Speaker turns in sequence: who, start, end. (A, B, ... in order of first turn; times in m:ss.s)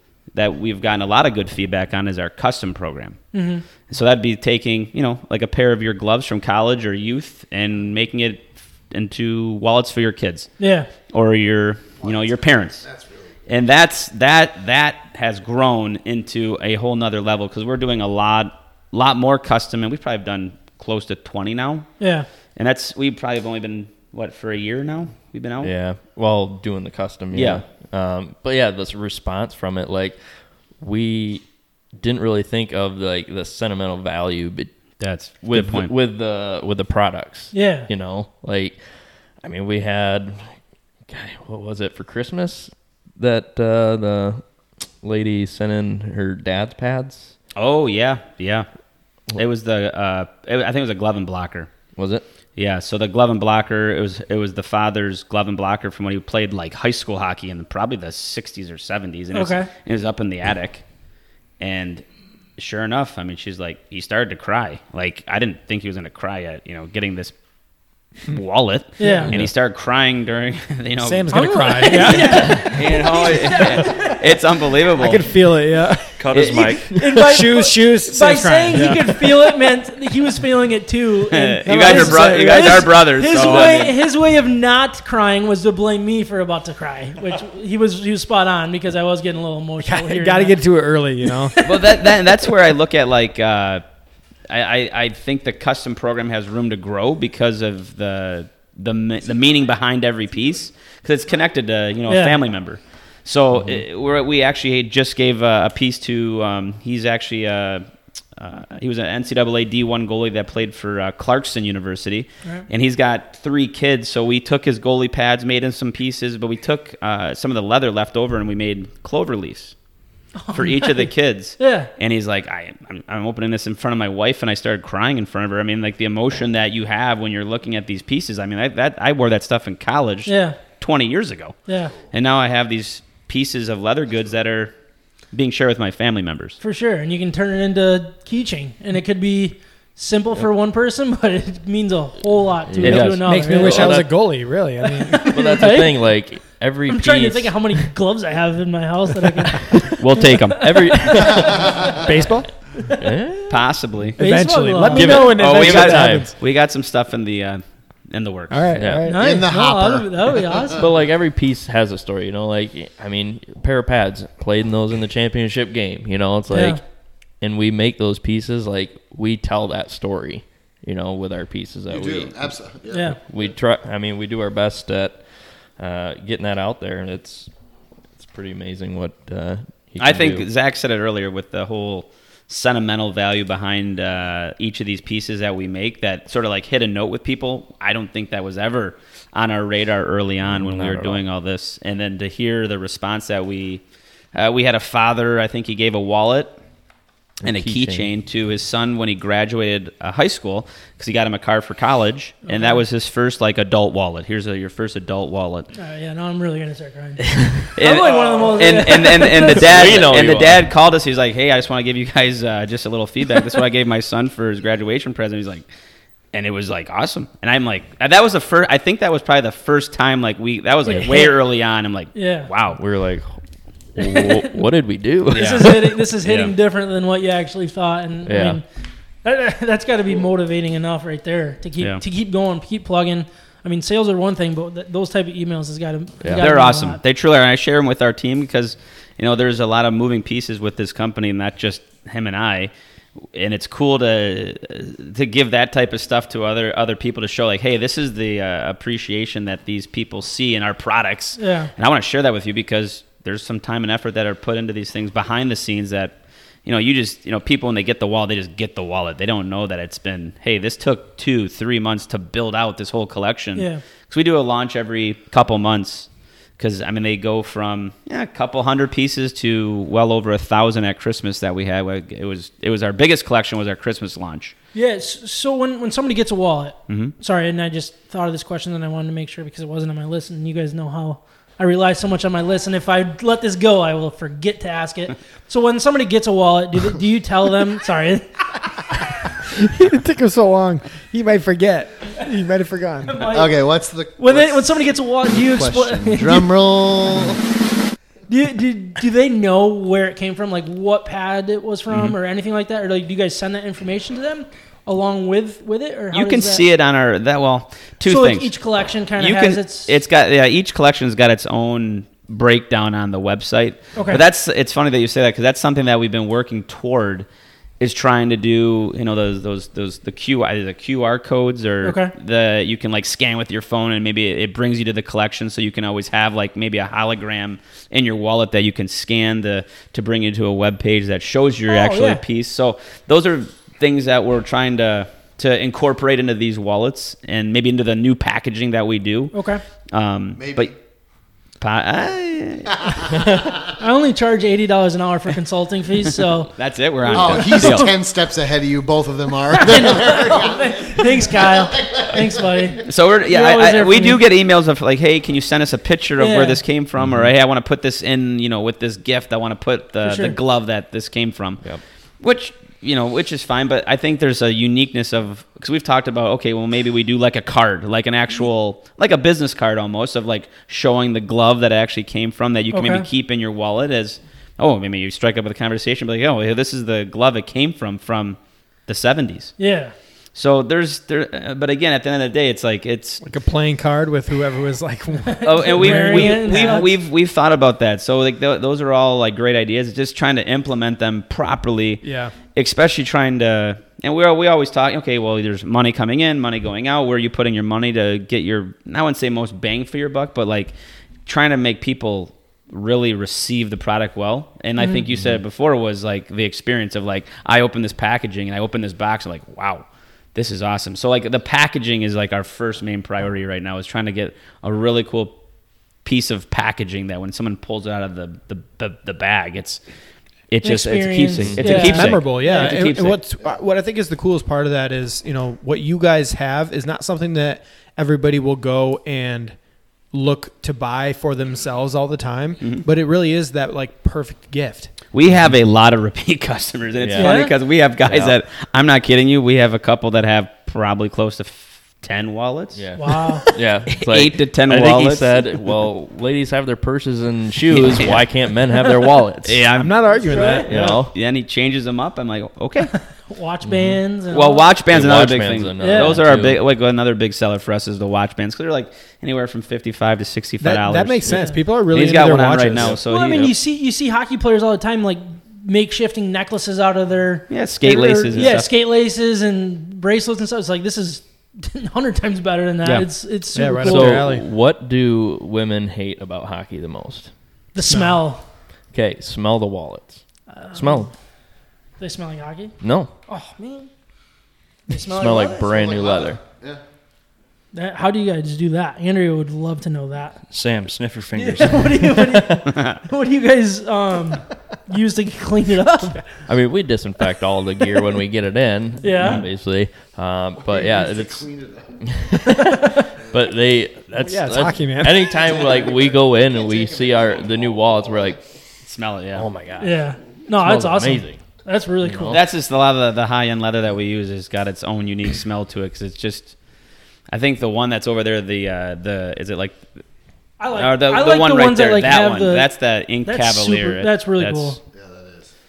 0:00.3-0:03.2 A
0:03.3-0:03.6 B
0:03.9-0:10.5 A
0:10.6-0:10.9 B
0:11.1-0:12.8 A
0:12.8-0:13.3 C
0:13.5-0:21.9 A
0:22.0-0:22.3 B
0:22.6-0:25.7 A
0:25.6-0:30.2 D
0:27.3-0:27.6 A
0:30.8-0:31.4 D
0:32.0-0:34.7 D
0:35.0-0:35.9 A
0:35.4-0:38.8 D
0:37.5-0:37.9 B
0:39.4-0:40.5 D
0:41.1-0:44.4 D
0:45.0-0:47.3 D
0:47.5-0:48.7 A
0:49.3-0:51.7 A
0:52.0-0:52.2 D
0:52.6-1:00.8 A
0:59.3-0:59.7 B
1:01.6-1:02.0 A
1:02.6-1:07.3 A
1:08.3-1:15.2 A
1:09.0-1:09.3 B
1:11.0-1:12.7 E
1:11.3-1:14.2 B
1:14.9-1:16.2 E
1:16.2-1:17.0 F
1:16.3-1:16.8 A
1:16.9-1:30.6 B
1:17.1-1:19.5 E
1:21.3-1:23.9 A
1:21.8-1:22.5 E
1:23.3-1:23.9 F
1:29.8-1:31.6 E
1:31.6-1:33.8 A
1:34.5-1:47.8 A
1:42.1-1:42.4 B
1:48.4-1:59.7 A
2:00.4-2:01.9 B
2:00.5-2:11.6 A
2:10.2-2:10.6 B
2:11.7-2:11.9 B
2:12.1-2:14.7 A
2:15.3-2:16.6 A
2:16.6-2:24.0 B
2:22.7-2:24.1 D
2:22.8-2:23.2 A
2:23.2-2:25.5 E
2:24.9-2:26.0 B
2:25.3-2:27.9 D
2:26.9-2:29.9 B
2:29.7-2:30.0 D
2:30.0-2:31.2 A
2:30.5-2:31.7 D
2:30.7-2:31.7 B
2:32.0-2:32.5 E
2:33.0-2:33.6 D
2:33.5-2:34.2 A
2:34.2-2:35.4 B
2:34.2-2:36.3 E
2:34.9-2:36.3 D
2:35.2-2:38.6 A
2:38.5-2:39.3 E
2:38.8-2:39.1 D
2:39.0-2:40.8 B
2:39.1-2:40.8 C
2:40.8-2:46.8 D
2:46.5-2:46.8 B
2:47.4-2:52.5 D
2:51.9-2:53.5 C
2:52.9-2:53.2 B
2:53.3-2:55.2 D
2:55.8-2:57.5 D
2:58.2-3:00.4 D
3:00.0-3:13.8 A
3:10.4-3:11.2 D
3:14.3-3:16.6 A
3:17.4-3:18.1 D
3:17.4-3:25.7 A
3:22.5-3:22.8 B
3:25.8-3:30.0 B
3:27.2-3:27.7 D
3:27.8-3:35.6 A
3:29.4-3:30.6 D
3:36.3-3:42.8 A
3:40.9-3:41.4 B
3:42.1-3:42.5 B
3:42.7-3:43.4 D
3:44.0-3:46.0 D
3:44.0-3:44.5 B
3:45.3-3:48.6 B
3:45.3-3:45.6 A
3:46.2-3:46.5 A
3:48.2-3:48.6 D
3:49.2-3:57.0 B
3:56.2-3:56.5 D
3:56.3-4:02.7 A
4:03.3-4:26.1 A
4:11.4-4:11.7 B
4:23.6-4:23.8 B
4:26.6-4:34.5 A
4:34.7-4:48.3 B
4:36.9-4:37.1 A
4:49.4-4:53.2 E
4:53.0-4:53.6 B
4:53.3-4:57.4 C
4:54.2-4:56.5 B
4:58.3-5:06.6 B
5:01.9-5:02.2 A
5:06.1-5:08.5 A
5:08.0-5:09.9 B
5:09.2-5:17.2 A
5:14.0-5:14.2 B
5:17.8-5:39.3 A
5:21.8-5:22.1 B
5:31.7-5:32.2 B
5:39.3-5:39.6 B
5:39.9-5:40.7 A
5:40.4-5:40.7 C
5:41.6-5:43.0 A
5:42.9-5:43.7 C
5:43.8-5:46.5 B
5:46.6-5:47.9 A
5:47.1-5:47.9 B
5:47.1-5:52.7 C
5:49.5-5:54.2 B
5:52.8-6:01.6 A
5:56.2-5:56.6 B
5:57.0-5:57.3 D
6:00.0-6:00.4 B
6:02.2-6:19.6 A
6:12.7-6:13.0 B
6:19.6-6:19.9 B
6:20.3-6:23.2 A
6:23.2-6:26.9 E
6:25.3-6:26.9 B
6:25.4-6:40.7 A
6:32.0-6:32.3 E
6:41.2-6:55.4 A
6:45.1-6:45.4 D
6:56.0-6:59.8 A
7:00.5-7:03.2 A
7:00.6-7:02.7 B
7:01.4-7:01.9 D
7:01.7-7:09.6 E
7:10.1-7:14.9 E
7:15.1-7:22.8 A
7:17.0-7:17.4 D
7:17.2-7:17.5 B
7:18.0-7:18.4 D
7:22.7-7:29.6 D
7:23.0-7:23.4 B
7:23.3-7:25.4 A
7:27.7-7:28.2 A
7:29.4-7:30.0 A
7:29.8-7:31.0 E
7:30.3-7:30.7 B
7:30.6-7:31.1 D
7:30.7-7:32.9 A
7:33.2-7:34.7 B
7:33.6-7:34.0 D
7:34.3-7:43.5 A
7:34.9-7:36.6 D
7:35.8-7:36.2 B
7:40.6-7:43.0 E
7:41.3-7:41.6 B
7:43.1-7:54.2 B
7:47.5-7:48.7 A
7:53.5-7:54.4 E
7:53.8-7:57.3 D
7:57.7-7:58.4 B
7:57.9-7:58.2 E
7:58.9-8:00.2 D
8:00.5-8:01.1 B
8:00.7-8:01.1 D
8:02.0-8:02.7 B
8:02.8-8:03.1 D
8:03.3-8:03.9 B
8:04.9-8:05.7 B
8:05.0-8:06.4 D
8:05.6-8:06.8 C
8:07.7-8:10.4 B
8:10.5-8:12.0 F
8:11.4-8:16.2 B
8:12.7-8:13.0 A
8:16.5-8:21.5 D
8:19.0-8:19.4 B
8:20.6-8:22.0 C
8:22.0-8:28.4 D
8:22.5-8:23.1 B
8:24.2-8:25.4 E
8:25.4-8:27.3 C
8:28.8-8:29.5 A
8:29.4-8:30.0 D
8:29.8-8:32.4 B
8:30.6-8:31.4 D
8:32.0-8:32.4 D
8:32.3-8:36.5 A
8:37.3-8:39.8 A
8:40.6-8:42.7 B
8:40.7-8:44.8 A
8:43.2-8:44.8 B
8:44.9-8:45.5 C